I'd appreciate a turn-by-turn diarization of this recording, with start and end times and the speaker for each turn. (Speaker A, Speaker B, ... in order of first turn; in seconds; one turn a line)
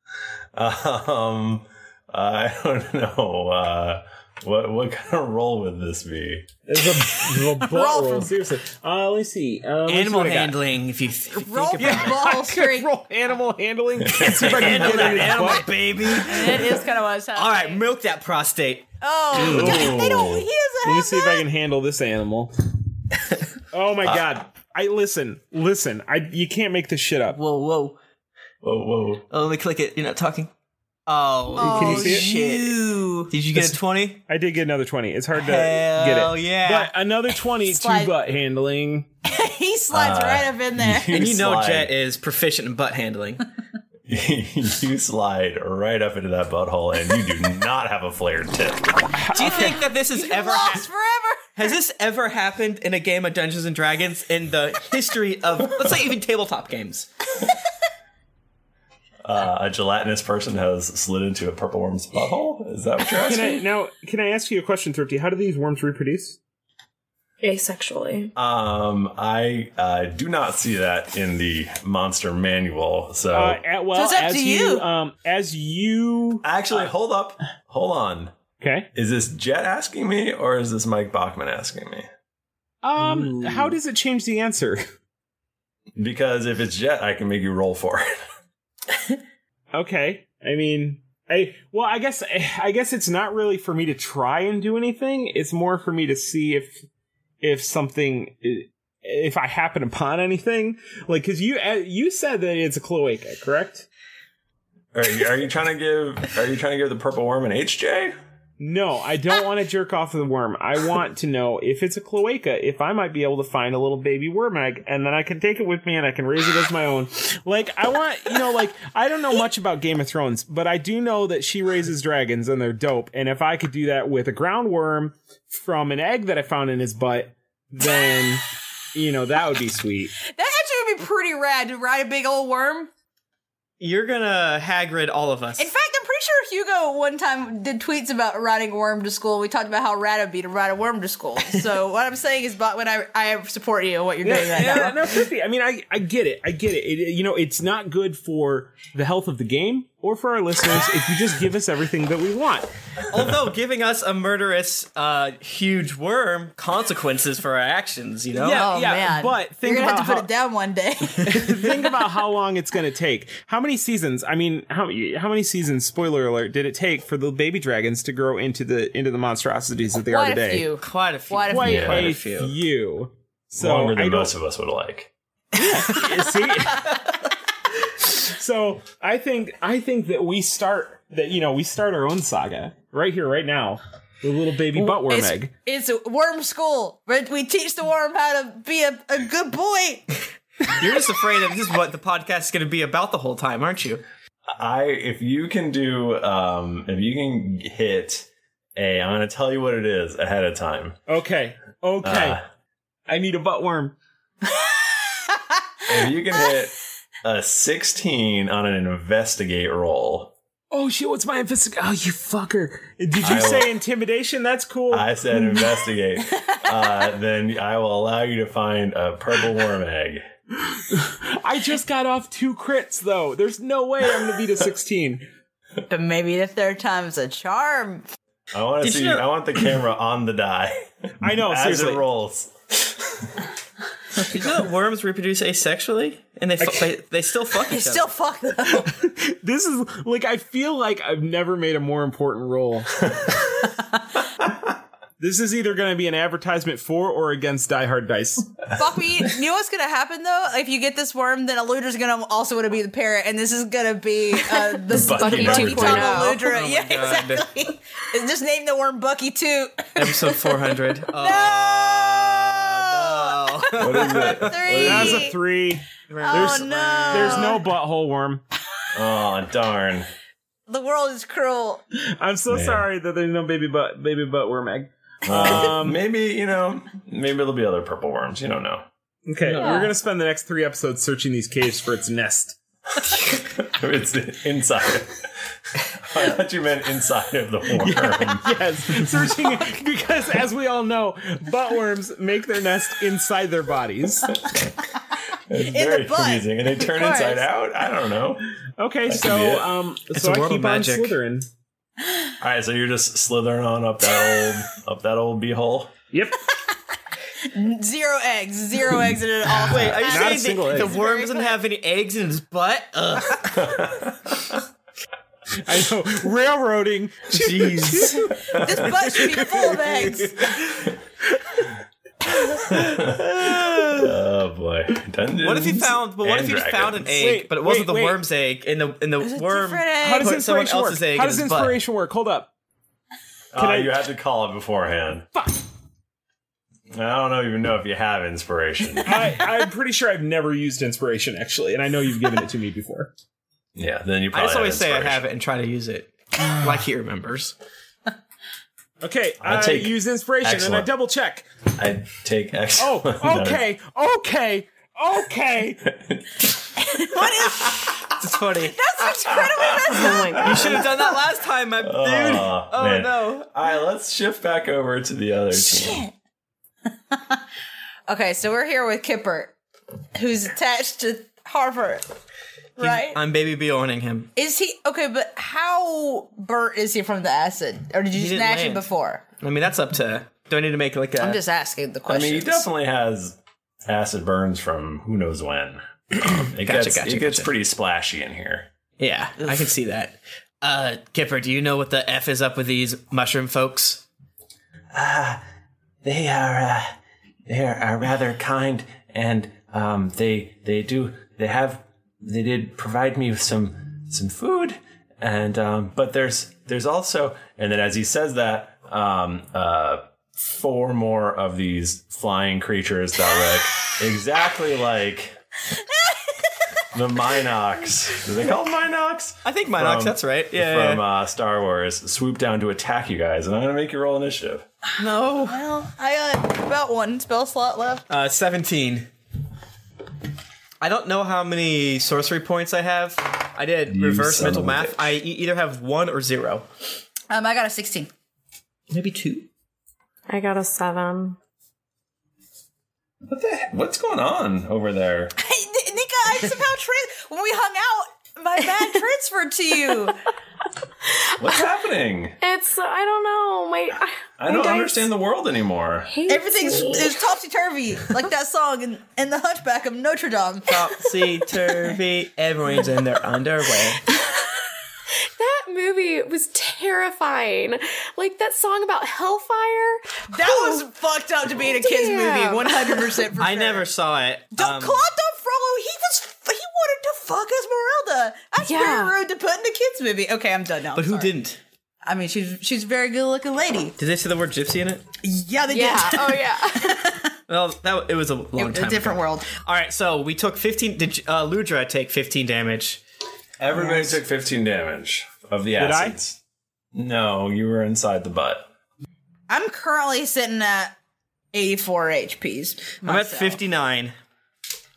Speaker A: 0.6-6.5
Speaker B: 6.7-10.6
Speaker C: 7.6-8.3
Speaker D: 9.9-12.4
Speaker C: 11.3-12.9
Speaker B: 11.8-16.3
Speaker A: 14.1-15.4
Speaker D: 14.4-19.8
Speaker C: 16.2-17.8
Speaker C: 19.0-21.4
Speaker A: 19.3-20.5
Speaker B: 19.4-19.9
Speaker B: 20.8-22.5
Speaker B: 23.7-27.4
Speaker D: 27.3-28.0
Speaker A: 28.6-29.2
Speaker D: 29.3-30.5
Speaker D: 31.1-34.2
Speaker C: 31.6-33.3
Speaker B: 31.6-32.3
Speaker B: 33.5-39.1
Speaker D: 35.4-36.9
Speaker C: 37.6-38.1
Speaker C: 39.2-41.2
Speaker A: 39.9-41.9
Speaker D: 41.1-43.5
Speaker A: 44.1-49.1
Speaker B: 49.2-49.8
Speaker D: 49.3-50.9
Speaker C: 49.5-51.7
Speaker D: 51.6-57.1
Speaker A: 59.2-63.6
Speaker B: 63.2-66.4
Speaker E: 67.4-68.3
Speaker A: 68.4-73.6
Speaker B: 73.3-76.5
Speaker C: 73.9-74.9
Speaker A: 76.4-78.3
Speaker B: 78.6-78.9
Speaker A: 78.9-82.1
Speaker B: 82.8-84.8
Speaker A: 86.0-88.1
Speaker B: 89.7-96.8
Speaker B: 97.4-103.9
Speaker A: 104.9-108.1
Speaker B: 108.6-128.4
Speaker B: 128.9-130.1
Speaker C: 130.3-132.9
Speaker D: 133.8-135.7
Speaker C: 135.6-145.1
Speaker B: 144.2-152.7
Speaker D: 153.1-158.7
Speaker B: 158.4-160.3
Speaker C: 158.4-161.4
Speaker B: 161.2-170.7
Speaker C: 170.1-171.9
Speaker D: 170.8-172.5
Speaker B: 171.5-174.3
Speaker A: 171.6-172.1
Speaker A: 173.6-175.1
Speaker B: 175.6-177.0
Speaker B: 178.0-185.5
Speaker C: 184.8-190.1
Speaker D: 190.7-194.0
Speaker A: 194.6-201.0
Speaker B: 201.1-202.4
Speaker A: 202.0-202.4
Speaker B: 203.1-203.9
Speaker A: 205.9-210.3
Speaker B: 210.7-215.1
Speaker A: 213.2-213.7
Speaker A: 214.9-220.2
Speaker B: 220.7-225.3
Speaker C: 225.9-228.1
Speaker A: 228.5-233.3
Speaker D: 228.8-229.3
Speaker B: 231.2-232.1
Speaker D: 234.2-238.1
Speaker B: 236.6-236.9
Speaker C: 237.7-238.9
Speaker B: 238.7-243.1
Speaker B: 245.2-248.5
Speaker C: 248.8-265.4
Speaker A: 254.9-256.2
Speaker E: 254.9-256.5
Speaker D: 256.4-257.5
Speaker D: 260.0-264.6
Speaker A: 263.8-265.3
Speaker B: 264.8-268.4
Speaker D: 266.1-267.6
Speaker C: 266.2-267.7
Speaker A: 268.9-270.1
Speaker C: 270.7-271.8
Speaker B: 272.2-276.0
Speaker A: 272.5-272.9
Speaker A: 275.3-278.9
Speaker B: 279.3-282.6
Speaker D: 279.5-279.8
Speaker A: 283.3-285.2
Speaker A: 286.0-288.5
Speaker B: 287.8-294.4
Speaker A: 295.5-298.5
Speaker C: 295.6-297.5
Speaker B: 298.8-301.5
Speaker A: 299.1-299.7
Speaker D: 300.1-301.2
Speaker A: 302.4-305.9
Speaker B: 306.1-306.4
Speaker C: 307.5-311.6
Speaker D: 309.6-313.7
Speaker B: 309.6-311.0
Speaker A: 313.5-314.3
Speaker B: 315.6-320.9
Speaker D: 317.3-318.3
Speaker A: 318.5-318.9
Speaker C: 318.6-320.4
Speaker A: 322.7-327.1
Speaker D: 323.4-324.0
Speaker D: 325.4-331.8
Speaker B: 327.1-328.2
Speaker C: 329.2-330.3
Speaker B: 330.0-332.5
Speaker A: 333.5-335.3
Speaker B: 333.6-333.9
Speaker B: 335.3-335.6
Speaker A: 336.9-339.4
Speaker B: 339.1-343.1
Speaker A: 343.8-345.2
Speaker D: 344.3-347.5
Speaker B: 349.0-351.5
Speaker A: 349.4-350.9
Speaker A: 351.8-353.6
Speaker B: 352.8-355.8
Speaker A: 355.9-356.5
Speaker C: 356.9-358.1
Speaker D: 358.1-358.8
Speaker C: 358.7-361.0
Speaker A: 359.3-360.9
Speaker E: 359.9-360.6
Speaker D: 360.4-363.5
Speaker A: 361.8-366.1
Speaker C: 365.6-366.1
Speaker C: 367.1-367.4
Speaker C: 368.1-369.5
Speaker C: 370.1-372.1
Speaker C: 372.8-373.2
Speaker D: 372.8-374.3
Speaker C: 374.4-379.2
Speaker D: 378.1-378.9
Speaker D: 379.4-381.4
Speaker C: 381.2-382.7
Speaker A: 382.1-388.7
Speaker D: 386.2-387.5
Speaker D: 389.0-394.0
Speaker A: 394.9-395.4
Speaker A: 396.0-396.9
Speaker A: 397.5-415.4
Speaker C: 416.1-416.5
Speaker A: 416.9-424.7
Speaker D: 419.4-421.1
Speaker D: 425.0-425.6
Speaker C: 425.4-428.1
Speaker D: 428.1-429.1
Speaker D: 430.8-436.7
Speaker A: 433.9-435.1
Speaker C: 437.3-438.1
Speaker D: 438.9-439.5
Speaker E: 440.3-441.4
Speaker A: 443.3-445.3
Speaker C: 445.4-450.2
Speaker A: 451.4-452.4
Speaker E: 452.4-455.1
Speaker A: 454.4-456.2
Speaker E: 456.1-457.1
Speaker C: 456.3-460.9
Speaker D: 460.7-464.0
Speaker E: 465.4-470.9
Speaker C: 470.3-473.9
Speaker E: 471.6-473.1
Speaker D: 473.4-475.0
Speaker C: 474.5-481.3
Speaker E: 478.6-479.2
Speaker D: 480.9-481.6
Speaker C: 482.0-484.0
Speaker D: 484.0-485.0
Speaker C: 485.2-487.3
Speaker E: 485.7-487.1
Speaker D: 487.5-493.0
Speaker C: 488.6-489.5
Speaker A: 493.6-496.4
Speaker B: 495.8-496.2
Speaker A: 496.9-498.7
Speaker C: 499.5-500.9
Speaker C: 501.5-503.6
Speaker D: 503.0-504.1